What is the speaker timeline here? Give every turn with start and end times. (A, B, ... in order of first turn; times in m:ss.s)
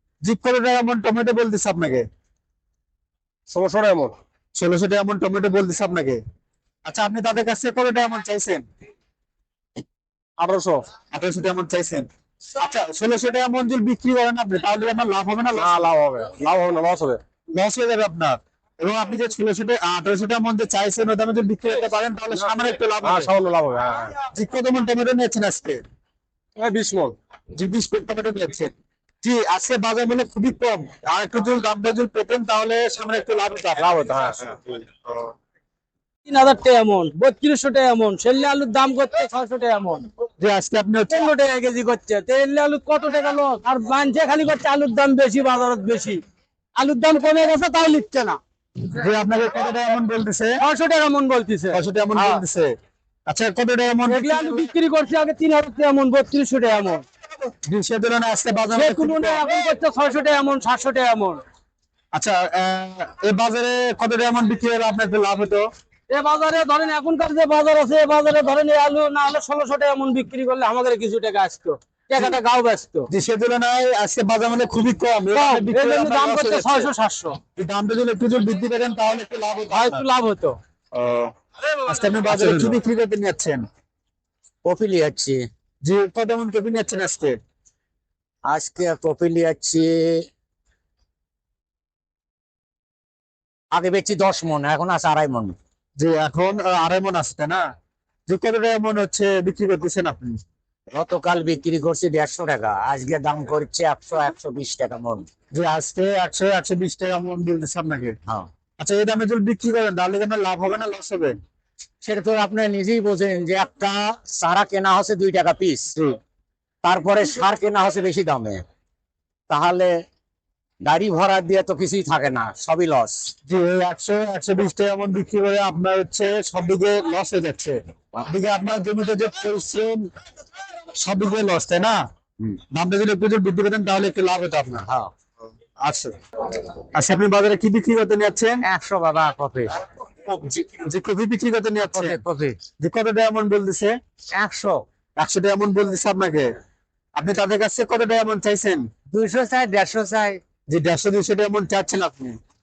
0:00.2-0:02.0 A
0:03.5-0:04.2 B
0:04.6-0:06.2 A
0:06.8-0:08.6 A
0:10.4-0:10.9 B
0:11.1-0:15.8 A
0:15.5-0:17.2 B
0:17.5-0:23.3 A
0:23.0-0:24.1 B
0:24.2-0:25.8 A
0:26.6-0:27.2 B
0:27.5-0:35.2 A
0:34.1-0:34.7 B
0:36.2-0:40.1 C
0:40.4-0:41.3 A
0:41.1-0:46.2 C
0:46.8-0:48.4 C
0:48.9-0:50.6 A
0:50.6-0:52.4 C
0:51.7-0:52.7 A
0:53.3-0:54.7 A
0:54.0-0:57.0 C
0:57.5-0:59.5 A
0:58.7-1:01.4 C
1:02.1-1:05.7 A
1:06.1-1:13.1 C
1:13.1-1:16.9 A
1:15.3-1:17.4 C
1:17.6-1:20.0 A
1:19.7-1:20.6 C
1:20.9-1:21.3 A
1:21.8-1:23.6 A
1:22.3-1:22.6 C
1:24.6-1:25.5 D
1:25.8-1:27.4 A
1:28.4-1:30.3 D
1:33.7-1:35.6 D
1:36.0-1:37.6 A
1:38.3-1:40.4 A
1:40.9-1:45.3 D
1:45.5-1:48.2 A
1:48.8-1:51.4 A
1:52.0-1:55.9 D
1:56.8-1:58.6 D
1:59.5-2:00.0 D
2:00.8-2:03.3 D
2:03.4-2:10.1 A
2:10.9-2:12.0 A
2:12.7-2:14.9 A
2:14.9-2:15.1 D
2:15.8-2:16.1 A
2:16.9-2:18.6 A
2:18.6-2:19.7 D
2:20.2-2:22.2 A
2:21.8-2:22.6 D
2:22.8-2:23.9 A
2:24.3-2:24.8 D
2:25.2-2:26.5 A
2:27.2-2:28.9 A
2:29.1-2:30.4 D
2:30.7-2:32.4 A